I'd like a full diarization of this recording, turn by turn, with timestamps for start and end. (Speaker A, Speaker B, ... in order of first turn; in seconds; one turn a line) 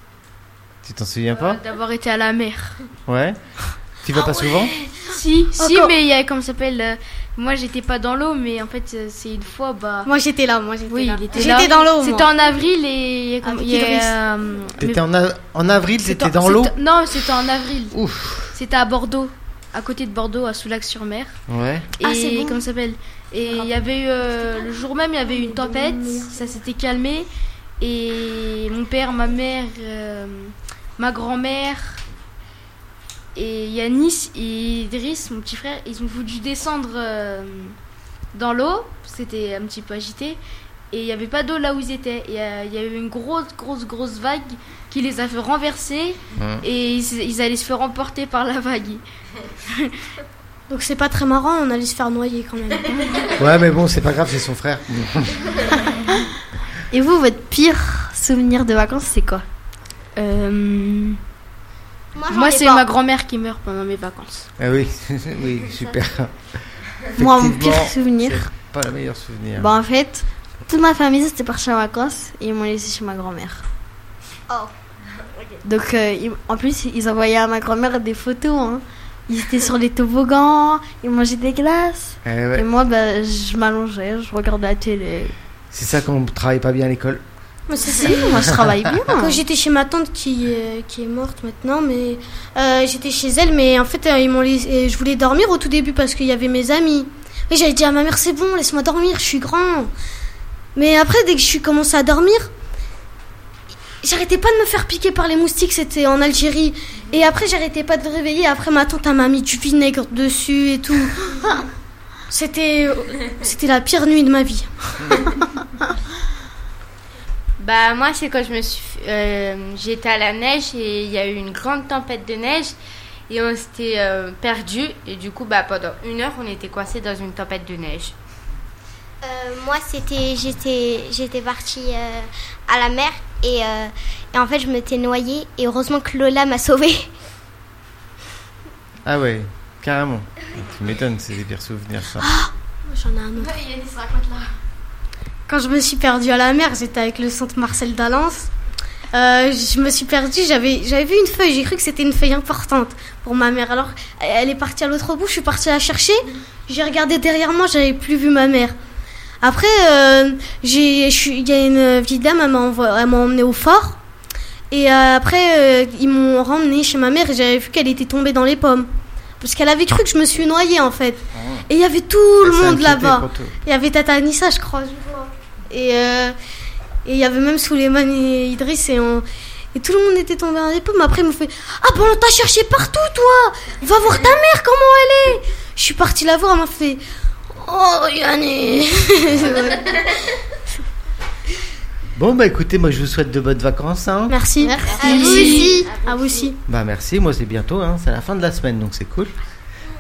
Speaker A: 0.8-1.6
Speaker B: 1.4-2.8
Speaker A: 3.1-3.4
Speaker A: 4.0-4.7
Speaker B: 5.0-10.1
Speaker C: 5.5-5.9
Speaker C: 10.1-12.3
Speaker B: 10.9-15.0
Speaker D: 11.4-11.7
Speaker C: 13.4-14.2
Speaker A: 14.8-16.7
Speaker B: 16.0-18.0
Speaker A: 17.9-18.6
Speaker B: 18.5-21.4
Speaker A: 21.5-21.9
Speaker B: 22.0-27.3
Speaker E: 22.0-22.6
Speaker E: 25.5-26.2
Speaker B: 27.8-32.0
Speaker B: 33.4-37.8
Speaker B: 38.3-40.4
Speaker B: 40.9-49.0
Speaker A: 46.4-46.6
Speaker B: 49.7-49.9
Speaker C: 50.7-53.3
Speaker A: 53.3-55.6
Speaker E: 56.9-59.4
Speaker B: 60.2-61.2
Speaker F: 62.1-62.9
Speaker B: 62.3-64.5
Speaker A: 64.6-69.7
Speaker E: 67.2-68.5
Speaker E: 69.6-73.7
Speaker E: 75.6-85.3
Speaker A: 82.2-82.7
Speaker A: 85.7-87.2
Speaker C: 87.7-88.5
Speaker E: 87.8-89.4
Speaker A: 88.4-89.0
Speaker C: 89.2-99.9
Speaker C: 100.8-102.5
Speaker C: 104.0-111.4
Speaker C: 112.3-115.3
Speaker D: 117.6-122.8
Speaker D: 123.3-128.2
Speaker F: 129.2-137.1
Speaker A: 139.1-142.3
Speaker C: 142.2-143.6
Speaker C: 145.5-148.5
Speaker C: 149.1-158.8
Speaker C: 159.4-164.0
Speaker C: 164.7-168.9
Speaker C: 169.4-176.4
Speaker A: 171.3-171.7
Speaker A: 172.4-173.6
Speaker C: 177.1-190.1
Speaker A: 192.2-194.4
Speaker C: 194.3-196.6
Speaker E: 194.6-195.9
Speaker D: 194.9-195.3
Speaker F: 195.0-195.9
Speaker D: 195.8-196.5
Speaker A: 196.7-199.3